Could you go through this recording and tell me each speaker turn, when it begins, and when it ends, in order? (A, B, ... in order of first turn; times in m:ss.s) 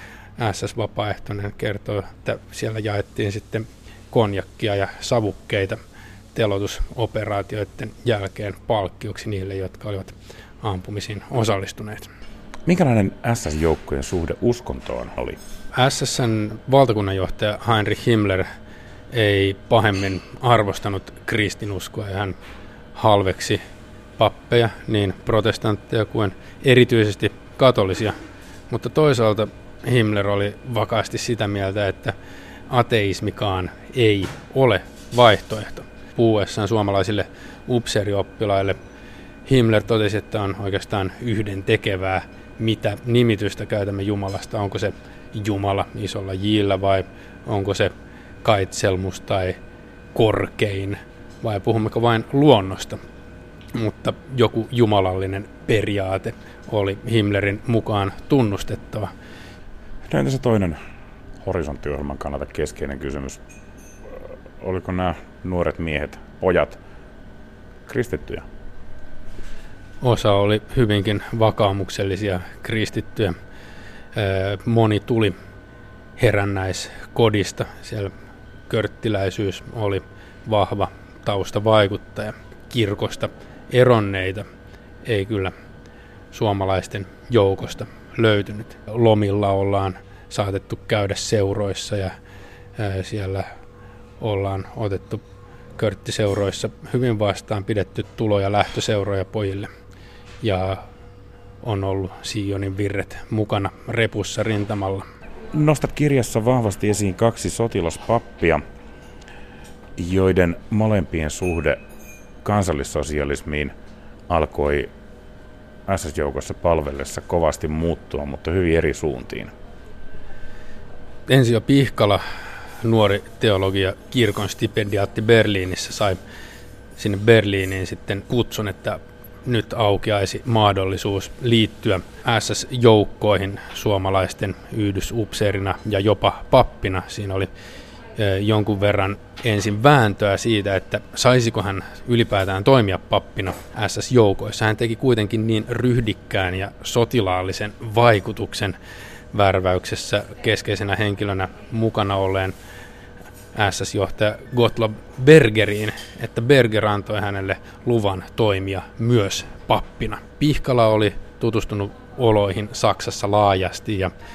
0:00.4-0:05.8 A
0:06.3-0:12.1 A
0:12.7-0:15.4 B
0:15.7-0:18.5 A
0:19.1-0:22.4 A
0:22.9-0:23.6 A
0:24.2-0:28.2 A
0:28.7-0:32.2 A
0:32.7-0:38.8 A
0:39.5-0:49.6 A
0:50.1-0:53.0 A
0:53.7-0:59.1 A
1:00.1-1:00.8 B
1:01.4-1:03.4 B
1:04.1-1:06.8 B
1:07.9-1:08.4 B
1:10.0-1:13.4 A
1:14.1-1:15.4 A
1:16.2-1:18.1 A
1:18.7-1:24.4 A
1:25.0-1:25.5 A
1:26.3-1:32.2 A
1:32.8-1:33.5 A
1:34.2-1:35.2 A
1:35.8-1:39.7 A
1:40.4-1:40.8 A
1:41.6-1:45.0 A
1:45.5-1:48.6 B
1:50.0-1:51.8 B
1:52.4-1:53.7 B
1:54.3-1:54.9 B
1:55.9-1:59.5 B
2:01.3-2:02.2 A
2:02.8-2:06.2 A
2:07.0-2:17.5 A
2:18.2-2:28.8 A
2:29.3-2:32.6 A
2:33.5-2:44.1 A